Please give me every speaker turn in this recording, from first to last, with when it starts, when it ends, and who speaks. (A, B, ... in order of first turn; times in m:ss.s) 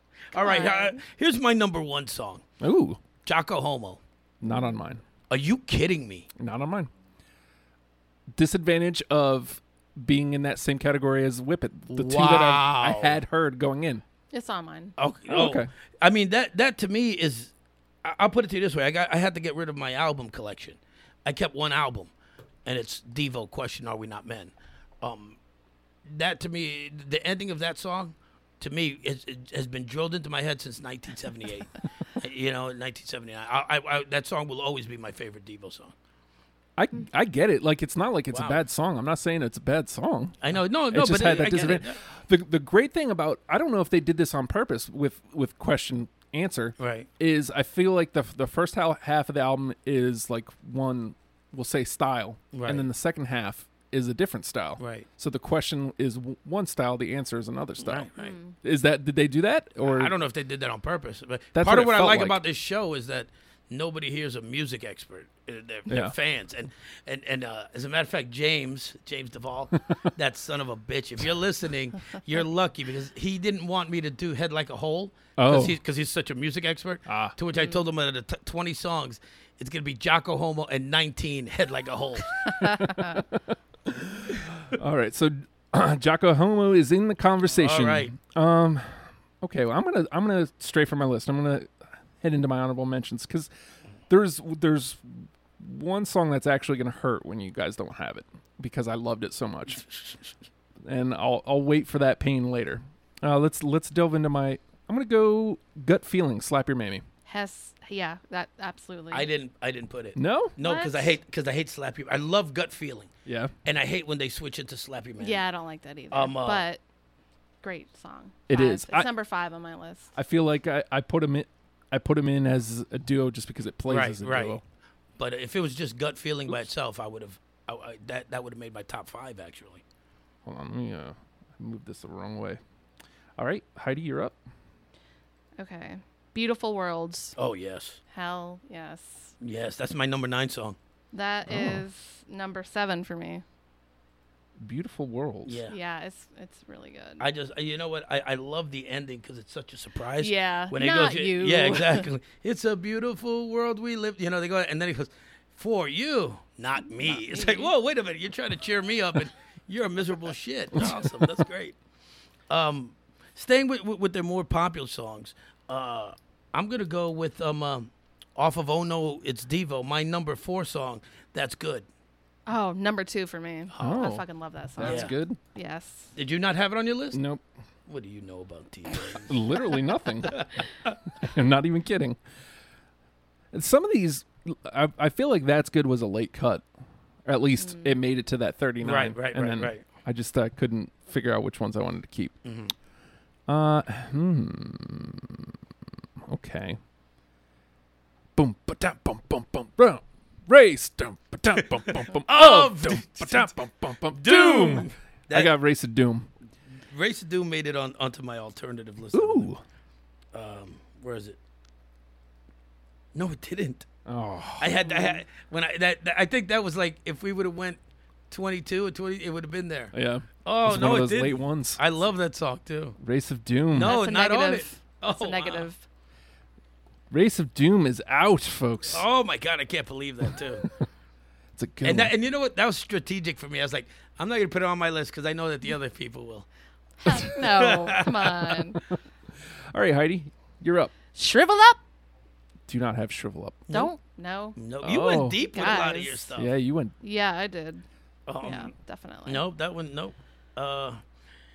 0:00.3-0:02.4 A
0:00.3-0:01.0 B
0:02.6-0:03.0 C
0:03.2-0:04.0 A
0:04.4-0:05.0 C
0:04.5-0:04.8 B
0:05.3-0:06.3 A
0:06.4-0:06.9 C
0:08.3-0:14.0 C
0:11.9-0:13.2 A
0:14.3-0:14.9 B
0:15.0-0:17.5 A
0:15.3-0:15.7 C
0:18.0-0:22.1 A
0:22.6-0:25.4 A
0:26.0-0:35.9 A
0:36.8-0:40.4 C
0:38.3-0:38.6 A
0:40.4-0:42.0 A
0:40.9-0:58.1 C
0:46.8-0:47.1 A
0:52.5-0:52.9 A
0:54.8-0:55.1 A
0:57.8-0:58.3 A
0:58.2-0:58.6 B
0:58.6-1:00.1 C
0:59.8-1:22.4 A
1:01.5-1:02.4 C
1:05.9-1:06.1 C
1:15.4-1:15.8 C
1:17.1-1:17.3 C
1:22.4-1:23.2 B
1:22.6-1:33.5 C
1:27.5-1:28.1 A
1:34.1-1:40.2 C
1:40.8-1:47.0 C
1:47.2-1:49.3 B
1:49.1-1:53.1 A
1:50.1-1:50.5 C
1:50.6-1:51.2 B
1:53.2-1:53.5 C
1:53.6-1:55.4 A
1:55.2-1:56.8 B
1:56.1-1:56.6 A
1:57.6-2:00.1 B
1:58.5-1:59.1 C
2:00.1-2:04.6 C
2:03.9-2:04.6 A
2:05.2-2:09.8 A
2:10.4-2:12.6 C
2:13.4-2:14.4 C
2:15.6-2:17.4 B
2:17.4-2:18.0 A
2:18.1-2:19.3 B
2:19.4-2:20.8 A
2:21.1-2:23.4 B
2:21.5-2:21.8 C
2:24.6-2:25.6 C
2:25.4-2:25.7 A
2:25.7-2:27.2 B
2:27.2-2:41.8 A
2:30.2-2:32.1 B
2:36.9-2:37.7 B
2:40.8-2:41.3 C
2:42.5-2:51.8 A
2:52.5-2:56.1 B
2:53.8-2:54.2 C
2:54.8-2:55.4 C
2:54.8-2:55.1 A
2:56.1-2:57.2 A
2:57.1-2:57.4 C
2:57.9-2:59.4 A
2:59.1-3:00.4 C
3:00.2-3:01.0 A
3:01.1-3:02.2 C
3:03.5-3:06.6 C
3:07.2-3:12.3 C
3:07.6-3:07.9 B
3:08.8-3:09.8 A
3:12.4-3:12.7 A
3:13.5-3:15.6 C
3:16.2-3:16.8 C
3:18.4-3:26.3 C
3:22.1-3:23.5 A
3:24.1-3:25.5 A
3:26.9-3:29.5 A
3:29.1-3:29.6 C
3:30.3-3:31.4 A
3:33.1-3:33.9 A
3:34.0-3:35.2 C
3:34.6-3:37.8 A
3:38.3-3:39.9 A
3:39.9-3:41.8 C
3:40.4-3:43.0 A
3:43.0-3:44.0 C
3:43.7-3:45.7 A
3:43.8-3:45.8 B
3:47.1-3:49.0 C
3:48.9-3:50.7 A
3:50.3-3:50.8 C
3:51.5-3:52.1 C
3:51.8-3:56.4 A
3:57.0-3:58.8 B
3:57.2-3:58.5 A
3:59.7-4:00.9 C
4:01.1-4:01.8 B
4:02.7-4:03.6 C
4:03.7-4:04.6 B
4:04.6-4:06.5 A
4:04.8-4:05.4 C
4:05.5-4:06.3 B
4:06.3-4:06.9 C
4:07.0-4:07.8 B
4:08.3-4:08.7 A
4:08.4-4:09.4 B
4:09.2-4:11.0 A